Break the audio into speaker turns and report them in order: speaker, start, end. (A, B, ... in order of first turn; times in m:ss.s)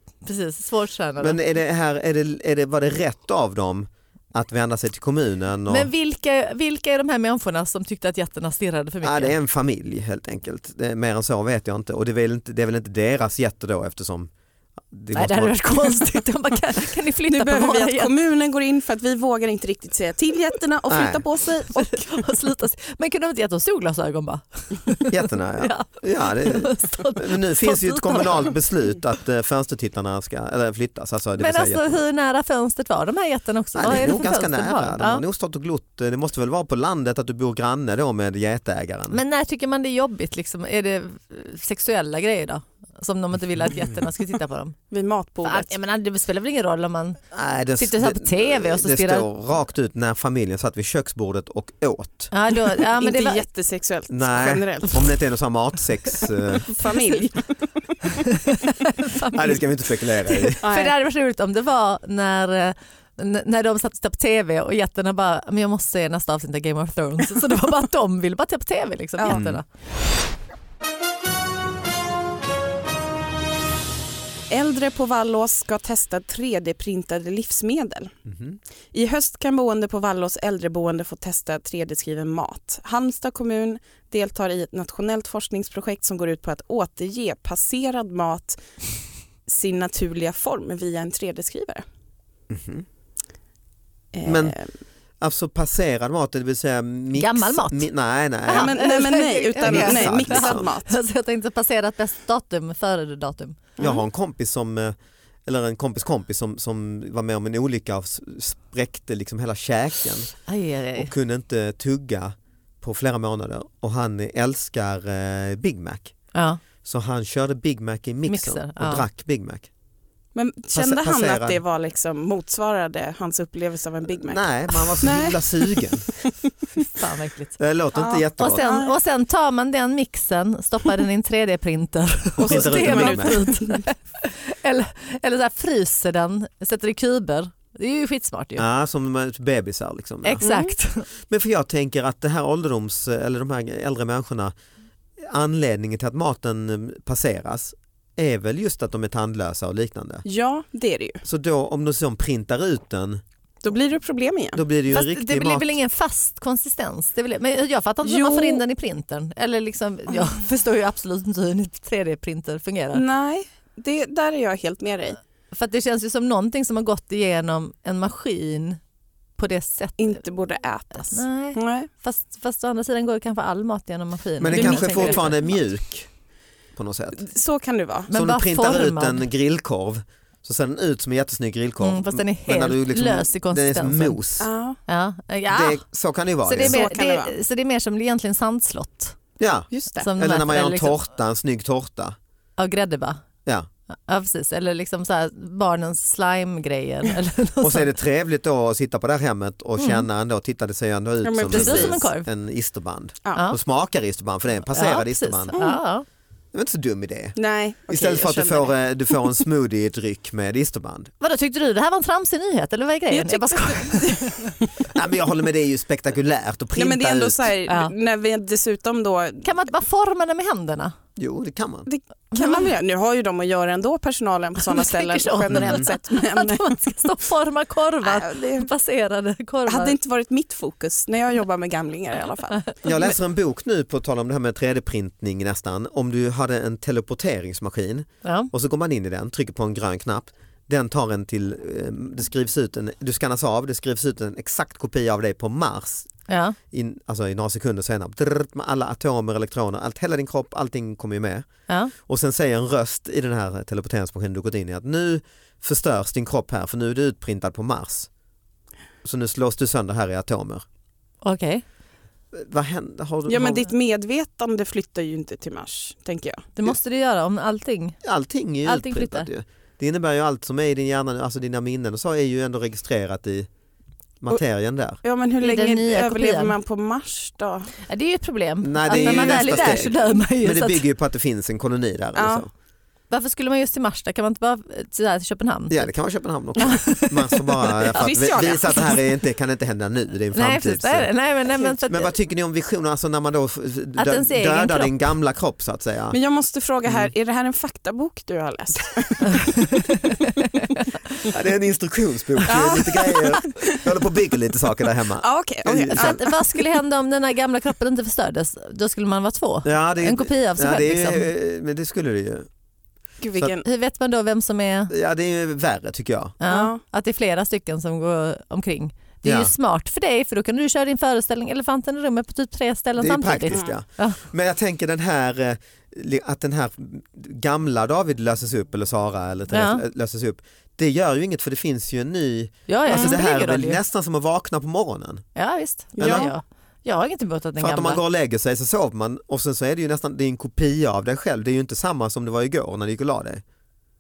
0:00.2-0:01.4 A
0:01.2-0:05.9 B
0:05.7-0:09.3 A
0:09.0-0:14.3 B
0:14.9-0:16.0 B
0:15.1-0:18.1 A
0:17.3-0:22.2 C
0:20.9-0:21.2 B
0:21.7-0:28.5 A
0:25.1-0:32.0 B
0:31.4-0:35.2 A
0:33.7-0:39.2 B
0:39.1-0:44.8 A
0:43.6-0:44.0 B
0:44.9-0:45.7 C
0:45.4-0:47.2 A
0:47.3-0:52.3 B
0:47.8-0:49.3 A
0:52.3-0:53.4 A
0:52.8-0:55.1 C
0:54.1-0:56.7 B
0:56.6-0:58.1 C
0:58.3-0:59.6 A
0:59.3-1:00.6 B
1:00.2-1:09.6 A
1:00.6-1:00.9 C
1:09.2-1:09.4 C
1:09.3-1:09.6 B
1:14.5-1:18.1 C
1:18.2-1:18.6 B
1:18.9-1:28.6 C
1:29.5-1:31.8 C
1:32.5-1:32.8 B
1:34.1-1:34.7 C
1:34.2-1:34.6 B
1:35.2-1:38.8 B
1:37.1-1:37.9 A
1:38.5-1:43.7 A
1:38.5-1:41.0 C
1:39.6-1:40.7 B
1:43.8-1:44.0 C
1:43.8-1:50.3 B
1:50.5-1:51.1 A
1:51.0-1:56.1 B
1:56.3-1:56.6 A
1:56.8-1:59.7 B
1:58.3-1:59.0 A
2:00.4-2:06.3 C
2:00.7-2:01.6 B
2:04.2-2:06.1 B
2:06.8-2:07.6 A
2:07.6-2:08.6 B
2:07.9-2:08.9 C
2:08.4-2:18.6 A
2:12.4-2:13.4 B
2:12.4-2:13.9 C
2:18.6-2:20.4 B
2:20.2-2:21.1 A
2:20.4-2:20.8 C
2:21.3-2:24.5 B
2:25.2-2:30.2 B
2:30.2-2:31.2 C
2:31.2-2:33.2 B
2:33.6-2:34.6 C
2:34.5-2:35.8 B
2:34.9-2:43.0 A
2:38.0-2:38.6 C
2:42.9-2:45.2 C
2:45.5-2:48.8 A
2:49.4-2:50.2 A
2:50.0-2:51.9 C
2:51.0-2:55.4 A
2:54.4-2:56.1 B
2:54.5-2:55.3 C
2:56.8-2:57.2 B
2:57.2-2:58.1 C
2:58.1-2:59.2 A
2:58.1-3:04.5 B
3:01.8-3:04.2 A
3:04.4-3:04.8 C
3:04.9-3:05.8 A
3:05.5-3:06.8 B
3:06.4-3:09.2 A
3:06.6-3:07.4 C
3:09.4-3:12.2 B
3:09.7-3:10.1 C
3:10.0-3:11.0 A
3:12.6-3:13.2 A
3:14.1-3:17.9 A
3:17.6-3:25.6 B
3:19.8-3:20.0 A
3:21.2-3:22.0 C
3:21.5-3:22.3 A
3:24.7-3:26.0 A
3:25.5-3:25.8 C
3:26.5-3:27.4 B
3:27.4-3:29.4 C
3:27.9-3:31.1 B
3:31.2-3:34.5 A
3:33.1-3:34.8 C
3:34.9-3:37.5 B
3:36.7-3:39.5 C
3:37.7-3:37.9 A
3:39.4-3:40.9 A
3:41.2-3:41.9 B
3:41.9-3:46.8 C
3:42.4-3:42.6 A
3:44.6-3:49.9 A
3:45.5-3:45.8 B
3:48.0-3:48.7 C
3:49.7-3:53.1 C
3:52.8-4:06.1 B
3:58.2-3:58.5 A
4:06.3-4:06.6 A
4:06.7-4:11.4 B
4:12.0-4:18.1 B
4:19.0-4:20.6 B
4:21.2-4:21.6 A
4:22.3-4:23.7 B
4:23.3-4:26.5 C
4:26.6-4:28.0 A
4:28.0-4:33.5 B
4:28.6-4:29.3 A
4:34.2-4:35.0 B
4:35.0-4:37.7 C
4:35.4-4:36.5 A
4:37.9-4:40.8 A
4:38.6-4:42.5 B
4:38.9-4:40.0 C
4:42.2-4:42.4 C
4:43.1-4:45.9 A
4:45.7-4:51.1 B
4:46.6-4:48.1 A
4:47.9-4:49.0 C
4:50.3-4:52.1 A
4:51.8-4:56.2 B
4:54.0-4:54.9 A
4:56.1-4:59.6 C
4:56.9-4:57.1 B
4:59.3-5:00.9 A
5:01.3-5:06.2 B
5:02.4-5:03.9 C
5:05.2-5:06.6 C
5:05.9-5:11.3 A
5:09.6-5:12.5 B
5:13.2-5:13.6 C
5:13.6-5:14.9 A
5:14.9-5:16.4 B
5:16.4-5:24.2 A
5:16.5-5:16.8 C
5:19.2-5:19.5 B
5:23.0-5:35.2 B
5:23.5-5:23.8 C
5:29.5-5:29.8 A
5:32.7-5:33.8 A
5:32.9-5:33.2 C
5:35.4-5:38.0 A
5:36.0-5:36.3 C
5:36.0-5:36.3 B
5:37.6-5:43.4 B